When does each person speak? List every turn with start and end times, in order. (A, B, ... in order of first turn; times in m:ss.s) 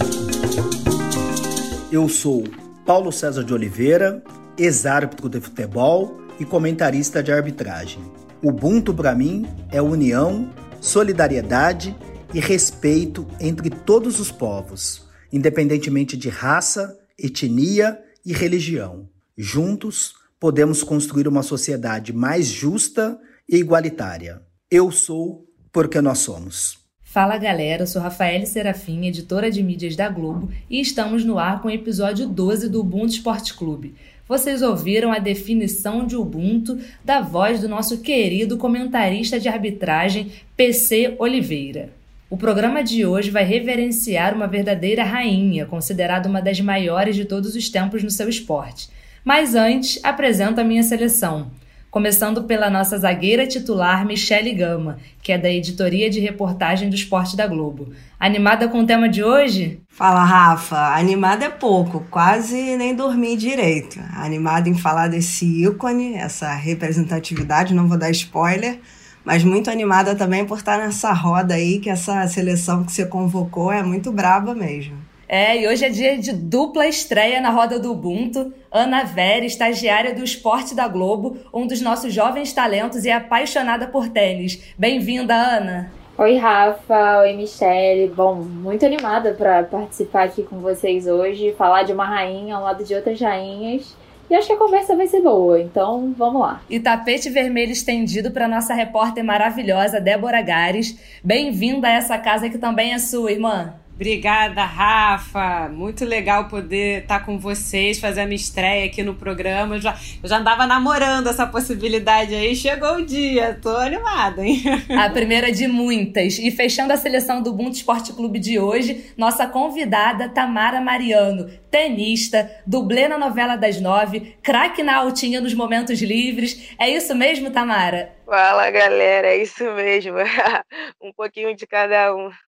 0:01.9-0:26.8 A
0:27.1-0:59.8 B
1:00.0-1:15.1 C
1:15.3-1:25.9 B
1:26.2-1:36.6 D
1:36.7-1:43.8 B
1:44.0-1:54.8 E
1:55.0-2:08.1 B
2:08.3-2:12.3 F